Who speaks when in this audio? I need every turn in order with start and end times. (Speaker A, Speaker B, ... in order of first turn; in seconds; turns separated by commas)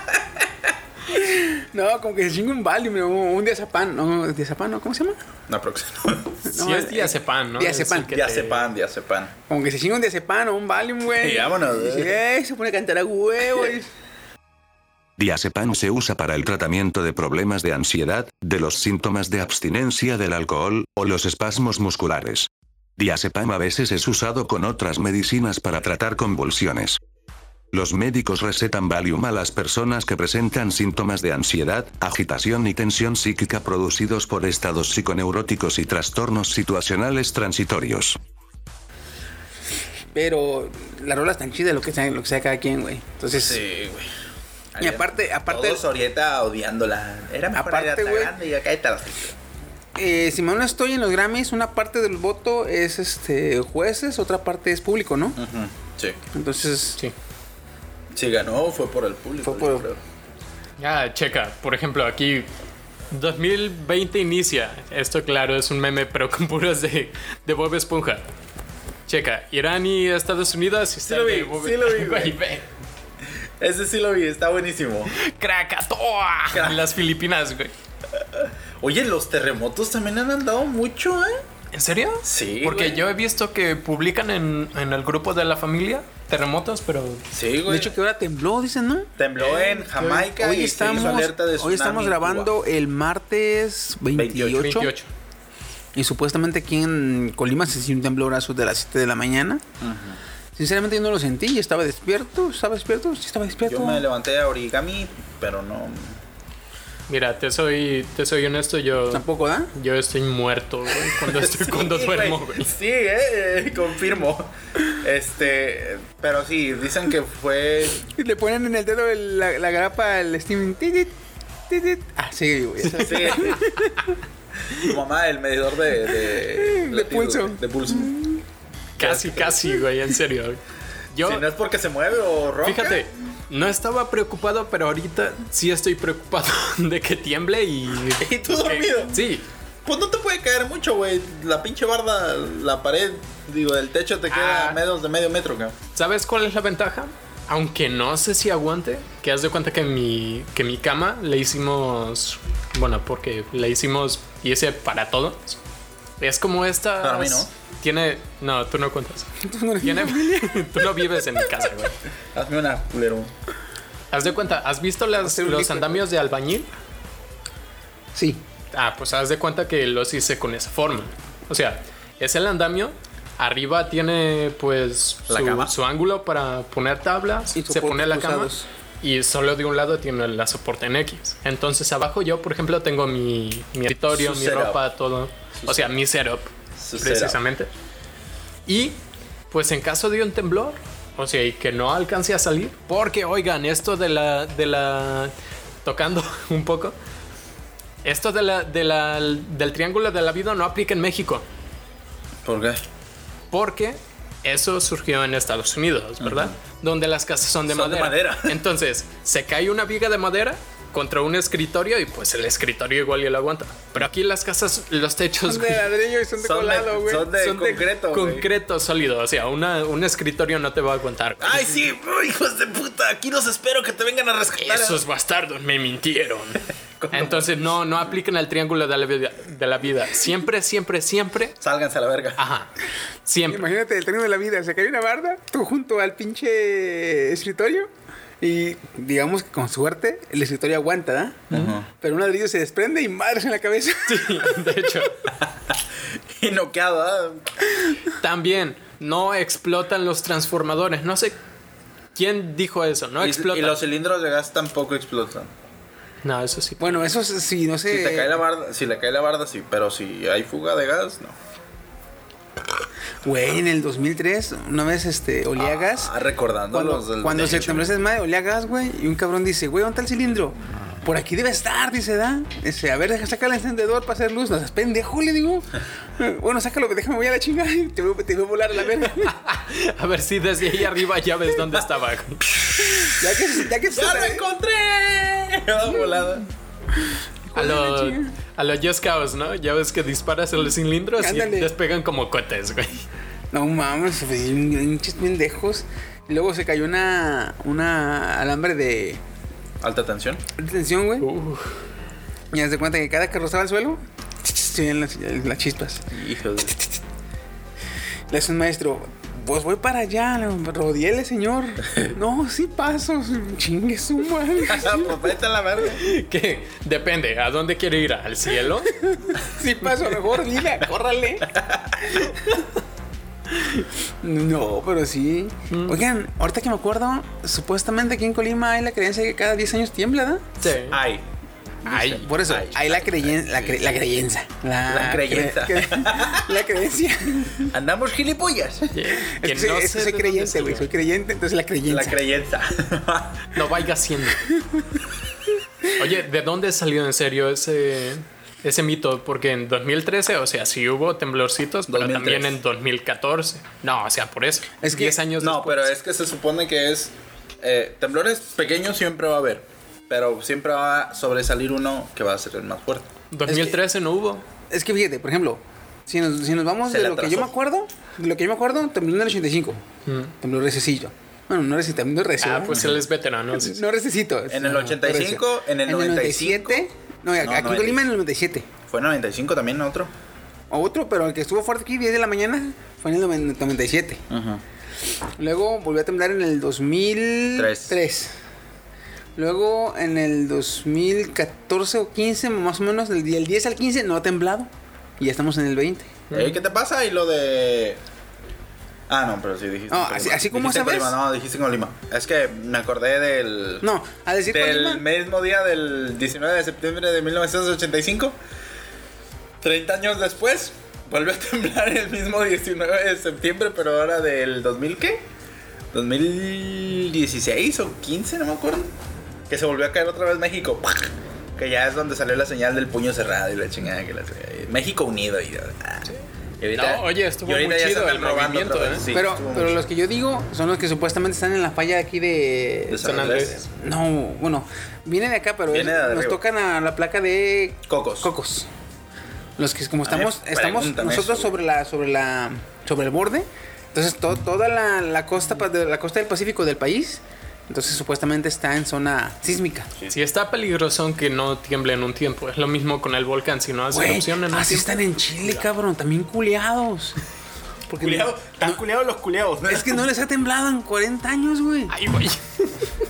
Speaker A: 1.1-5.2, Speaker B: 5.5-6.4, Speaker A: 6.4-8.1, Speaker C: 6.5-8.7, Speaker B: 8.1-9.3, Speaker A: 9.5-13.9, Speaker B: 11.1-12.2, Speaker D: 15.2-27.0, Speaker D: 27.7-38.2, Speaker A: 40.1-43.6, Speaker B: 43.3-44.1, Speaker B: 44.7-49.4, Speaker A: 44.8-45.8, Speaker A: 47.5-48.3, Speaker A: 49.9-55.4, Speaker B: 55.4-56.2, Speaker A: 56.3-57.0, Speaker B: 58.1-60.0, Speaker A: 59.4-59.9, Speaker C: 60.8-62.5, Speaker C: 63.1-68.2, Speaker C: 69.1-72.6, Speaker B: 71.1-72.4, Speaker B: 73.6-75.1, Speaker C: 75.1-77.7, Speaker B: 76.5-76.9, Speaker B: 78.4-81.4, Speaker C: 81.7-87.2, Speaker B: 82.2-83.0, Speaker B: 87.3-87.9, Speaker A: 87.7-89.1, Speaker B: 89.2-92.5, Speaker C: 89.4-89.8, Speaker A: 89.9-94.9, Speaker B: 94.1-94.6, Speaker C: 94.5-95.1, Speaker A: 95.9-99.6, Speaker B: 99.8-100.2, Speaker A: 100.5-104.0, Speaker B: 103.7-106.2, Speaker C: 107.1-112.7, Speaker A: 109.1-109.7, Speaker B: 111.2-118.1, Speaker A: 118.1-121.1, Speaker A: 121.7-124.0, Speaker B: 122.9-123.6, Speaker C: 123.3-123.8, Speaker B: 124.7-128.2, Speaker A: 126.4-128.1, Speaker B: 129.0-129.7, Speaker C: 129.0-130.6, Speaker C: 131.1-131.4, Speaker B: 131.2-133.0, Speaker C: 132.6-139.4, Speaker B: 138.2-139.2, Speaker B: 139.8-145.8, Speaker C: 144.3-144.8, Speaker C: 145.9-155.6, Speaker C: 156.2-159.3, Speaker B: 157.0-157.5, Speaker A: 159.4-160.7, Speaker C: 159.8-161.9, Speaker B: 162.3-163.3, Speaker C: 164.1-166.7, Speaker A: 165.2-166.0, Speaker A: 168.1-168.4, Speaker C: 168.7-187.7, Speaker B: 175.3-175.7, Speaker A: 177.5-178.7, Speaker B: 184.1-184.8, Speaker B: 185.6-185.9, Speaker B: 186.8-187.4, Speaker C: 188.7-189.0, Speaker C: 189.5-195.3, Speaker C: 195.8-196.9, Speaker C: 198.0-201.4, Speaker B: 202.4-202.8, Speaker C: 203.5-215.9, Speaker B: 206.2-206.5, Speaker B: 207.7-208.6, Speaker A: 215.4-217.6, Speaker B: 216.4-218.5, Speaker C: 217.3-221.8, Speaker B: 221.4-225.0, Speaker C: 224.6-231.6, Speaker B: 227.0-227.5, Speaker B: 231.6-232.4, Speaker C: 232.4-232.7, Speaker C: 233.2-233.7, Speaker A: 233.5-244.8, Speaker B: 241.5-241.8, Speaker C: 244.1-245.2, Speaker B: 246.3-247.5, Speaker C: 248.2-251.3, Speaker C: 252.1-253.8, Speaker B: 253.2-255.5, Speaker C: 256.2-257.1, Speaker A: 256.8-258.4, Speaker B: 257.9-261.3, Speaker A: 263.2-266.1, Speaker B: 265.6-268.0, Speaker A: 266.7-279.3, Speaker C: 279.2-282.4, Speaker B: 282.6-283.2, Speaker A: 283.0-284.4, Speaker B: 283.9-286.5, Speaker A: 287.1-288.4, Speaker C: 287.5-293.0, Speaker A: 291.2-291.7, Speaker A: 293.5-299.2, Speaker B: 299.8-300.4, Speaker A: 300.6-301.3, Speaker C: 301.2-301.7, Speaker A: 302.5-306.1, Speaker B: 306.1-306.8, Speaker A: 308.3-315.2, Speaker B: 314.6-316.1, Speaker C: 315.9-319.0, Speaker A: 319.0-321.5, Speaker B: 321.5-322.3, Speaker A: 323.8-330.6, Speaker C: 325.7-326.0, Speaker C: 330.6-331.0, Speaker B: 330.7-331.2, Speaker C: 331.9-332.3, Speaker A: 331.9-337.7, Speaker B: 332.3-333.8, Speaker B: 334.9-336.6, Speaker B: 337.6-339.1, Speaker C: 338.9-340.9, Speaker A: 339.3-342.2, Speaker B: 341.9-343.5, Speaker C: 343.5-344.5, Speaker A: 344.6-344.8, Speaker C: 345.9-355.9, Speaker B: 351.9-352.6, Speaker A: 354.8-355.2, Speaker B: 355.4-363.1, Speaker C: 363.3-364.4, Speaker A: 363.5-363.8, Speaker A: 364.7-369.8, Speaker B: 366.9-367.5, Speaker C: 370.1-370.3, Speaker A: 370.4-372.9, Speaker C: 372.4-373.8, Speaker B: 372.7-373.0, Speaker A: 373.6-378.7, Speaker B: 374.5-376.9, Speaker B: 377.4-378.0, Speaker B: 378.9-380.1, Speaker A: 380.7-384.2, Speaker B: 384.3-384.6, Speaker A: 385.4-388.3, Speaker B: 387.5-388.0, Speaker A: 389.4-396.2, Speaker C: 396.3-396.6, Speaker B: 396.3-398.0, Speaker B: 399.1-403.9, Speaker A: 399.9-401.2, Speaker A: 403.8-405.0, Speaker B: 404.5-408.4, Speaker B: 409.6-415.2, Speaker B: 415.9-418.9, Speaker B: 419.5-426.1, Speaker B: 426.6-429.8, Speaker C: 426.7-429.0, Speaker A: 429.1-438.7, Speaker B: 432.9-433.6, Speaker C: 433.0-433.6, Speaker B: 435.7-436.4, Speaker B: 437.9-438.3, Speaker A: 439.6-449.9, Speaker B: 440.1-441.5, Speaker C: 450.1-454.9, Speaker A: 453.9-457.2, Speaker A: 457.9-458.8, Speaker B: 458.0-460.0, Speaker A: 459.7-461.9, Speaker C: 461.9-462.9